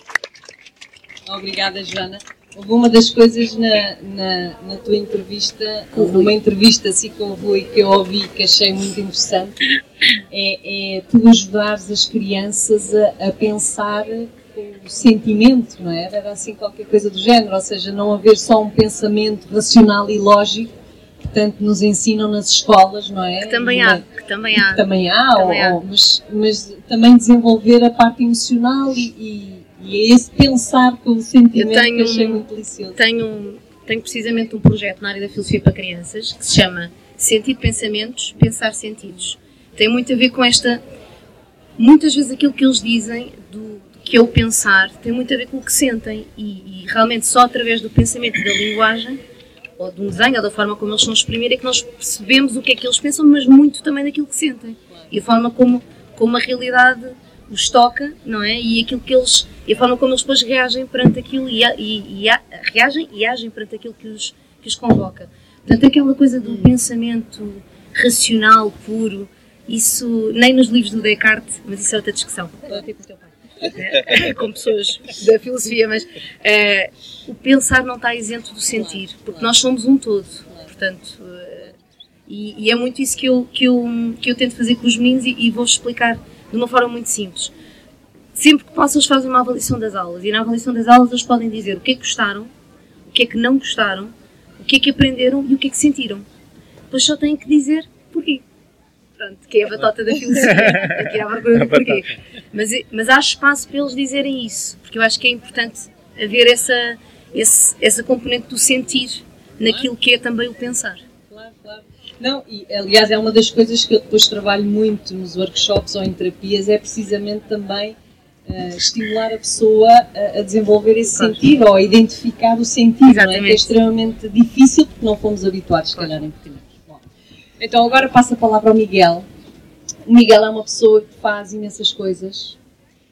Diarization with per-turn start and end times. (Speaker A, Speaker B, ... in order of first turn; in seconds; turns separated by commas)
Speaker A: 1.3-9.6, Speaker B: 6.0-6.3, Speaker A: 10.3-24.0, Speaker B: 23.4-25.8, Speaker A: 24.6-33.0, Speaker B: 31.5-32.4, Speaker B: 32.9-40.8, Speaker B: 41.8-49.2, Speaker B: 49.8-81.7, Speaker A: 78.7-79.5, Speaker B: 82.3-87.5, Speaker B: 88.3-92.5, Speaker B: 93.1-96.2, Speaker B: 96.9-98.4, Speaker B: 99.2-111.0, Speaker A: 109.6-109.9, Speaker A: 111.3-127.0, Speaker B: 121.1-121.4, Speaker B: 123.0-123.6, Speaker A: 127.6-129.3, Speaker A: 130.1-132.6